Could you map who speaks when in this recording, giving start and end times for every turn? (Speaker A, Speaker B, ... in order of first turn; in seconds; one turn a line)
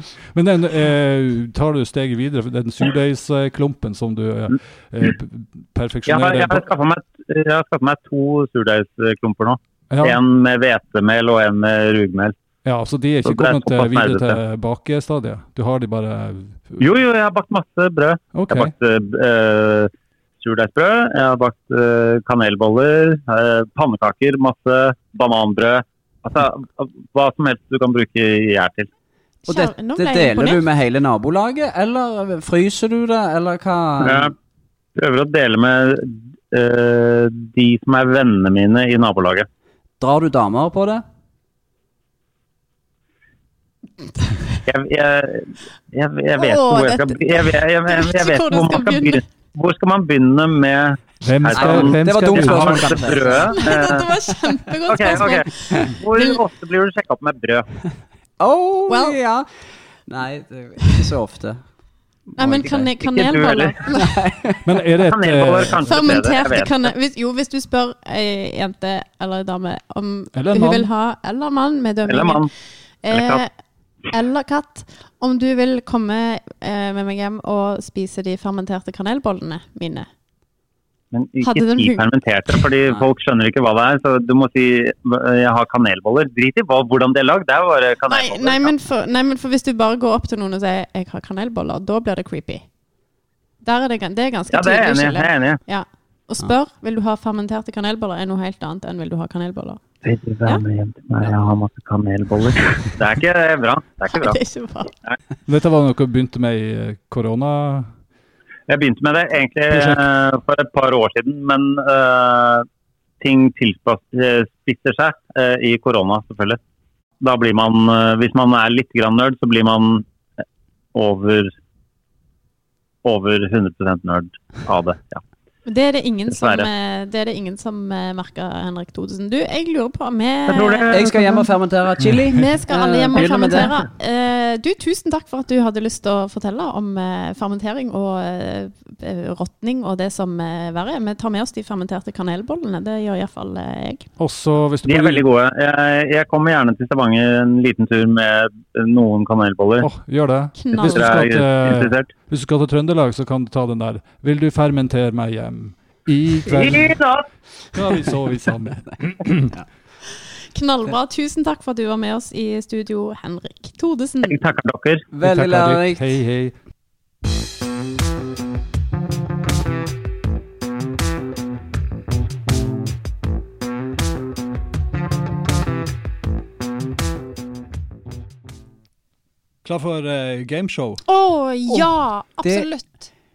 Speaker A: 0.3-6.7
Speaker B: 6.1-12.4
Speaker A: 9.9-10.2
Speaker A: 12.6-16.8
Speaker B: 13.2-14.4
Speaker B: 16.8-28.9
Speaker A: 18.3-18.7
Speaker C: 29.4-30.6
Speaker D: 29.5-34.3
Speaker B: 34.0-34.3
Speaker B: 35.0-39.5
Speaker D: 40.0-41.0
Speaker B: 44.6-54.1
Speaker C: 46.3-49.2
Speaker A: 51.2-53.3
Speaker D: 51.5-53.6
Speaker C: 53.5-56.4
Speaker B: 54.9-57.7
Speaker D: 58.4-59.5
Speaker C: 58.9-59.2
Speaker D: 60.0-61.6
Speaker D: 62.4-62.9
Speaker C: 62.4-64.2
Speaker B: 63.0-63.7
Speaker D: 63.9-64.7
Speaker A: 64.6-66.1
Speaker B: 65.0-66.9
Speaker C: 65.8-72.5
Speaker A: 70.3-70.9
Speaker B: 72.1-72.5
Speaker C: 73.0-73.5
Speaker B: 73.1-73.4
Speaker C: 74.1-80.1
Speaker B: 81.1-88.7
Speaker C: 81.4-82.0
Speaker C: 88.1-92.6
Speaker C: 93.6-99.8
Speaker B: 94.5-95.6
Speaker B: 100.0-104.4
Speaker C: 104.1-104.9
Speaker A: 105.5-107.9
Speaker B: 108.7-112.7
Speaker A: 109.7-110.0
Speaker B: 113.2-116.6
Speaker B: 117.2-120.0
Speaker B: 120.9-121.5
Speaker B: 123.0-125.2
Speaker C: 125.6-131.5
Speaker B: 126.3-126.7
Speaker B: 130.5-131.1
Speaker D: 130.9-133.8
Speaker A: 132.0-132.4
Speaker C: 132.3-144.1
Speaker A: 144.2-145.2
Speaker B: 144.8-149.9
Speaker A: 149.8-157.0
Speaker C: 150.6-151.2
Speaker B: 150.8-152.1
Speaker B: 156.4-157.2
Speaker A: 157.7-159.6
Speaker C: 160.5-164.4
Speaker B: 164.2-165.1
Speaker D: 165.1-166.1
Speaker A: 165.2-166.5
Speaker A: 179.6-181.0
Speaker C: 181.1-183.1
Speaker D: 182.4-182.7